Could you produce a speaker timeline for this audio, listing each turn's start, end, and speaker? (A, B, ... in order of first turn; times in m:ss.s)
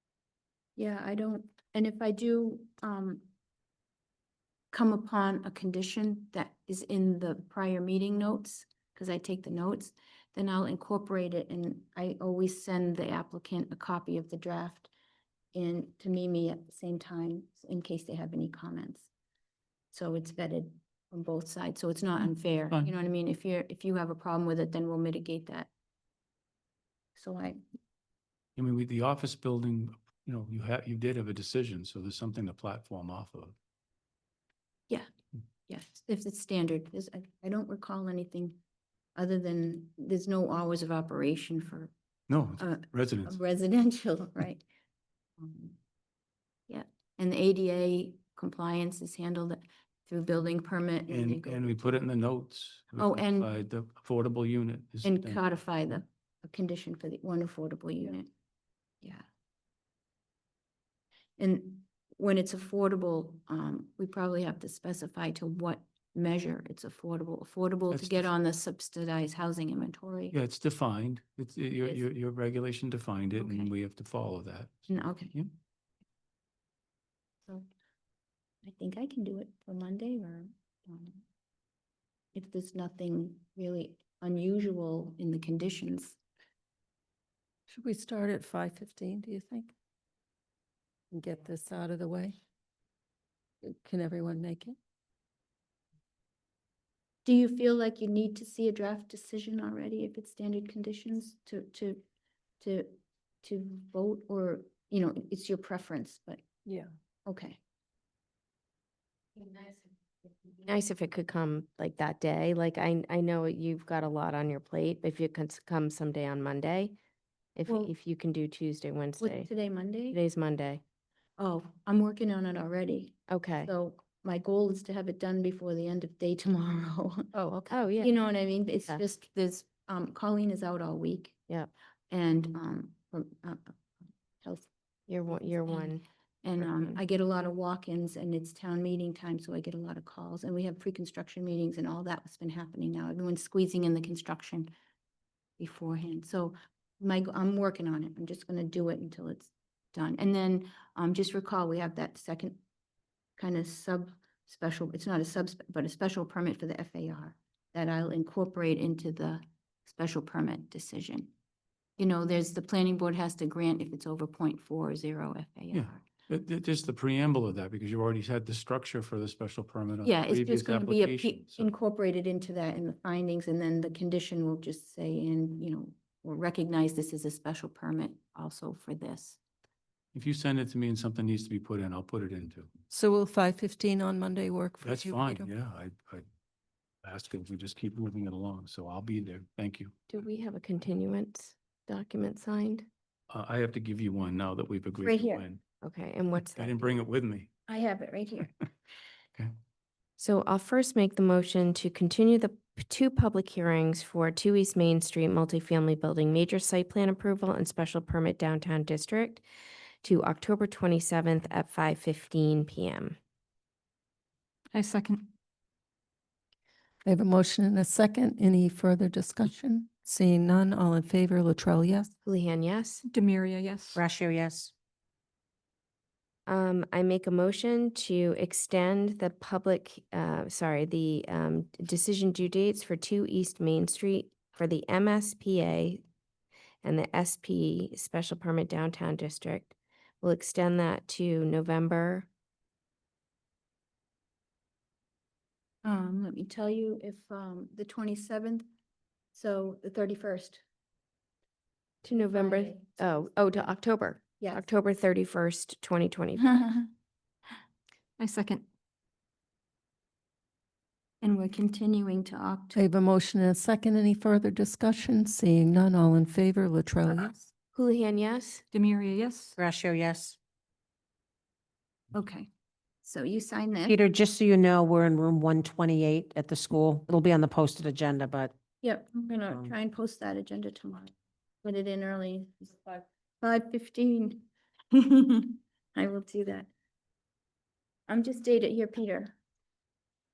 0:00.8-0:03.3 A
0:04.7-0:14.9 A
0:15.5-0:19.1 A
0:19.9-0:25.7 A
0:22.2-0:22.9 B
0:27.2-0:27.6 A
0:28.6-0:33.5 B
0:35.7-0:38.6 A
0:39.2-0:41.9 A
0:42.3-0:43.4 B
0:42.6-0:44.6 A
0:45.4-0:45.8 A
0:46.7-0:51.8 A
0:51.1-0:55.5 B
0:53.0-0:53.5 A
0:55.0-0:58.3 A
1:01.4-1:10.4 A
1:07.9-1:08.3 B
1:10.3-1:15.5 B
1:13.4-1:13.7 A
1:14.9-1:15.3 A
1:18.6-1:21.2 A
1:22.3-1:26.2 A
1:27.7-1:29.7 C
1:31.1-1:32.4 C
1:33.6-1:34.8 C
1:37.2-1:42.0 A
1:42.6-1:46.4 A
1:47.2-1:47.6 A
1:50.6-1:56.9 D
1:57.6-1:59.5 D
1:59.2-2:00.2 A
2:00.1-2:00.8 D
2:01.4-2:07.3 A
2:03.3-2:03.7 D
2:07.7-2:08.1 D
2:08.0-2:11.4 A
2:12.1-2:13.8 A
2:14.4-2:14.7 A
2:15.1-2:16.0 D
2:15.3-2:24.7 A
2:16.6-2:17.0 D
2:25.6-2:32.6 A
2:33.4-2:41.3 A
2:42.0-2:46.0 A
2:45.7-2:51.7 B
2:50.0-2:59.4 A
3:00.1-3:02.7 B
3:02.9-3:05.5 C
3:04.8-3:06.2 B
3:07.0-3:10.0 B
3:10.1-3:12.9 D
3:13.3-3:15.6 B
3:15.0-3:15.4 A
3:15.8-3:17.0 D
3:16.4-3:17.5 B
3:17.7-3:18.7 A
3:20.2-3:29.4 D
3:30.0-3:33.2 D
3:34.7-3:35.3 E
3:37.0-3:42.1 C
3:42.2-3:43.0 D
3:43.0-3:44.0 E
3:43.9-3:44.7 F
3:46.5-3:56.0 D
3:56.8-4:02.3 D
4:05.8-4:08.7 A
4:09.3-4:10.6 A
4:12.0-4:16.6 D
4:12.3-4:13.2 A
4:16.4-4:16.9 A
4:18.2-4:18.6 E
4:21.2-4:22.8 A
4:22.7-4:27.5 C
4:27.7-4:28.6 D
4:28.7-4:29.6 E
4:29.6-4:30.4 F
4:32.1-4:32.5 A
4:33.0-4:34.0 A
4:33.8-4:38.5 F
4:38.8-4:46.7 A
4:48.1-4:49.4 A